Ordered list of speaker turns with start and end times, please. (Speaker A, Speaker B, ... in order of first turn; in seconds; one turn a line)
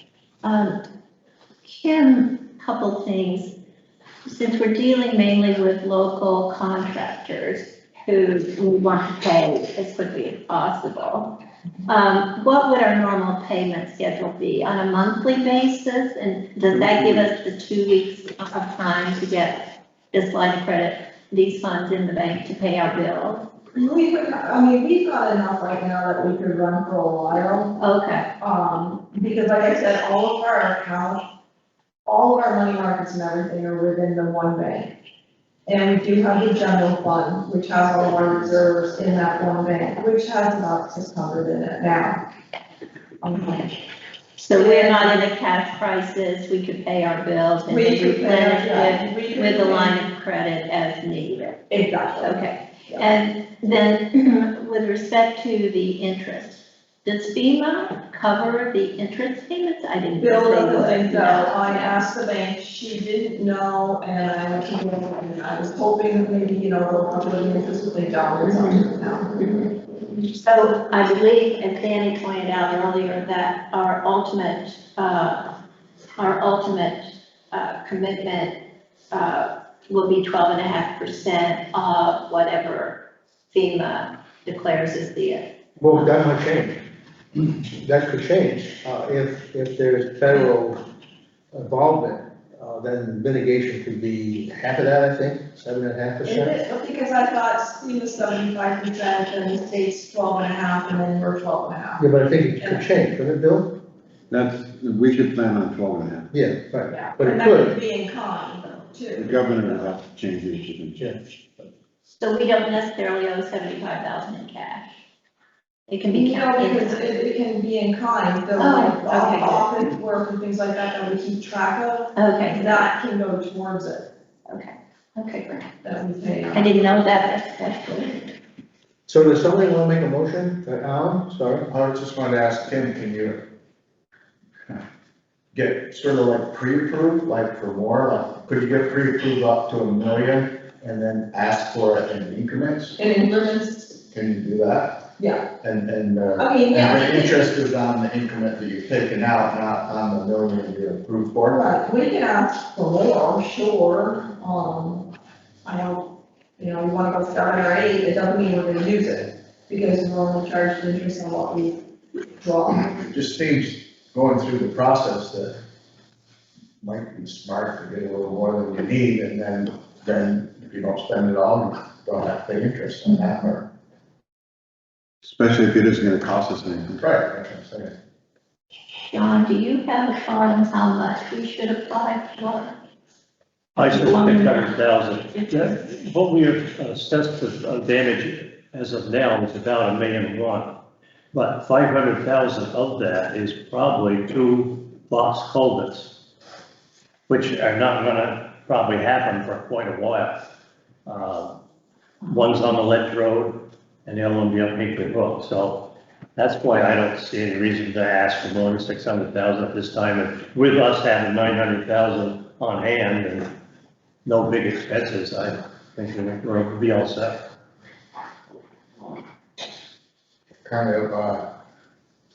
Speaker A: 0.4-0.8
Speaker A: 1.6-3.5
Speaker A: 4.2-11.3
Speaker A: 11.9-19.6
Speaker A: 20.1-23.4
Speaker B: 23.7-27.7
Speaker A: 27.8-28.3
Speaker B: 28.4-31.2
Speaker B: 32.0-34.9
Speaker B: 35.6-42.2
Speaker B: 43.2-43.8
Speaker A: 44.4-51.6
Speaker B: 44.5-45.2
Speaker B: 47.7-50.0
Speaker B: 51.7-53.1
Speaker A: 52.2-62.0
Speaker B: 60.2-69.3
Speaker A: 68.5-68.8
Speaker A: 69.4-75.5
Speaker A: 76.2-78.5
Speaker A: 79.1-83.0
Speaker A: 83.5-85.5
Speaker C: 85.8-86.7
Speaker C: 87.7-90.8
Speaker C: 91.5-96.5
Speaker B: 96.2-102.0
Speaker C: 102.0-103.7
Speaker B: 102.6-102.8
Speaker D: 104.3-106.3
Speaker C: 106.3-107.7
Speaker B: 106.9-109.3
Speaker D: 109.1-111.0
Speaker A: 112.1-115.0
Speaker A: 115.9-117.1
Speaker B: 116.1-124.1
Speaker A: 118.6-119.7
Speaker A: 122.2-122.8
Speaker A: 124.5-125.7
Speaker B: 125.8-126.8
Speaker A: 126.5-128.2
Speaker C: 129.1-131.7
Speaker E: 131.7-133.4
Speaker E: 135.5-143.0
Speaker B: 143.0-144.0
Speaker E: 144.1-145.0
Speaker B: 145.2-145.4
Speaker E: 145.6-151.6
Speaker B: 146.4-147.5
Speaker B: 151.5-155.1
Speaker B: 155.6-163.0
Speaker E: 163.1-165.6
Speaker E: 166.8-173.7
Speaker D: 175.2-177.0
Speaker E: 176.9-177.9
Speaker A: 179.1-182.7
Speaker F: 183.8-190.7
Speaker A: 183.9-184.6
Speaker F: 191.3-196.1
Speaker F: 197.3-200.4
Speaker F: 201.1-201.6
Speaker F: 202.3-203.5
Speaker F: 204.1-205.8
Speaker F: 206.3-213.4
Speaker F: 214.2-217.3
Speaker E: 220.6-221.4